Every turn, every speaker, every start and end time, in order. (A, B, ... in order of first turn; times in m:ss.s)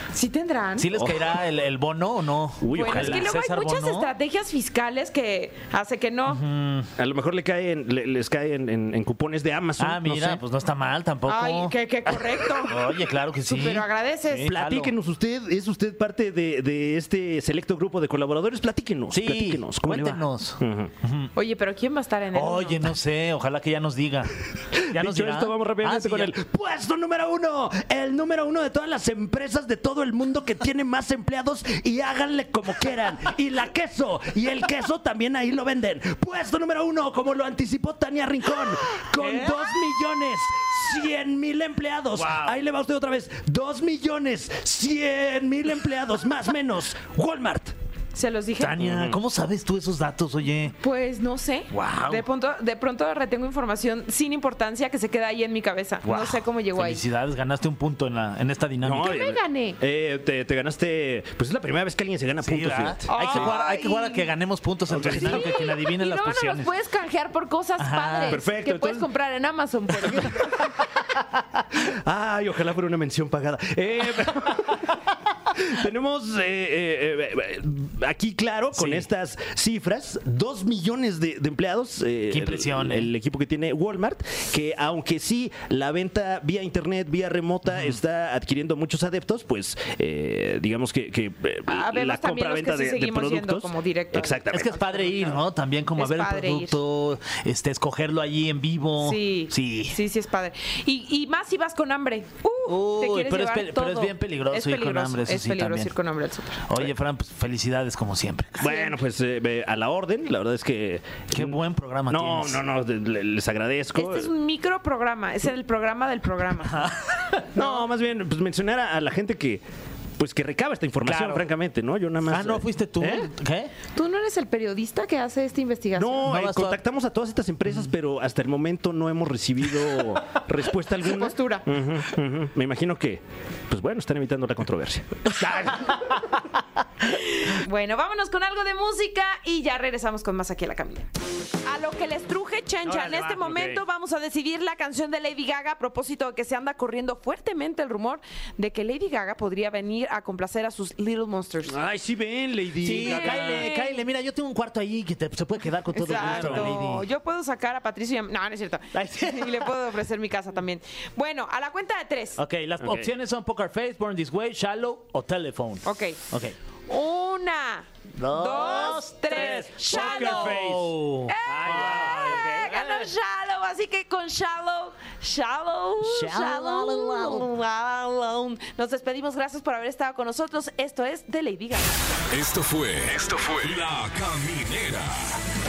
0:00.1-0:00.9 A
0:00.8-0:04.1 B
0:01.0-0:01.3 C
0:02.6-0:03.3 C
0:02.7-0:06.4 A
0:06.3-0:06.9 B
0:07.0-0:10.4 C
0:09.8-0:11.7 B
0:11.3-0:14.5 A
0:12.6-0:14.9 B
0:14.5-0:20.9 C
0:19.1-0:21.3 B
0:21.3-0:22.9 A
0:22.3-0:24.3 B
0:24.7-0:47.7 C
0:24.9-0:26.3 B
0:39.2-0:39.5 B
0:42.1-0:42.5 B
0:48.1-0:48.8 A
0:48.6-0:50.8 B
0:48.8-0:49.2 C
0:50.8-0:57.0 A
0:51.7-0:52.2 B
0:56.0-0:59.1 B
0:58.8-1:03.5 C
0:59.0-0:59.8 A
1:02.4-1:06.7 B
1:03.1-1:04.3 A
1:04.9-1:05.4 C
1:05.0-1:10.7 A
1:07.8-1:08.4 B
1:08.3-1:09.1 C
1:10.0-1:10.4 C
1:11.7-1:15.0 C
1:15.5-1:34.8 C
1:18.7-1:19.1 B
1:22.3-1:23.1 B
1:27.6-1:28.0 B
1:31.7-1:35.4 A
1:34.5-1:40.0 B
1:35.9-1:36.8 A
1:39.0-1:46.6 A
1:42.6-1:45.9 B
1:46.7-1:48.7 B
1:48.6-1:51.6 C
1:48.6-1:48.9 A
1:51.3-1:52.6 B
1:52.1-1:54.3 C
1:53.9-1:56.8 A
1:56.7-1:57.5 B
1:57.5-1:59.6 C
1:57.6-1:57.8 A
2:00.2-2:03.3 C
2:01.0-2:01.4 B
2:02.2-2:03.7 B
2:03.9-2:06.3 A
2:05.9-2:15.5 C
2:06.2-2:06.8 B
2:11.0-2:11.6 A
2:15.4-2:16.1 B
2:17.1-2:21.1 A
2:21.6-2:31.8 A
2:22.8-2:23.8 C
2:31.7-2:33.7 C
2:32.8-2:37.0 B
2:32.9-2:34.0 A
2:35.9-2:42.4 A
2:36.0-2:36.7 C
2:38.9-2:39.7 B
2:42.4-2:46.5 B
2:42.8-2:43.1 C
2:45.8-2:46.2 A
2:46.9-2:50.6 A
2:48.2-2:52.8 B
2:49.3-2:53.0 C
2:51.3-3:01.9 A
2:56.0-2:57.5 B
3:02.3-3:05.4 D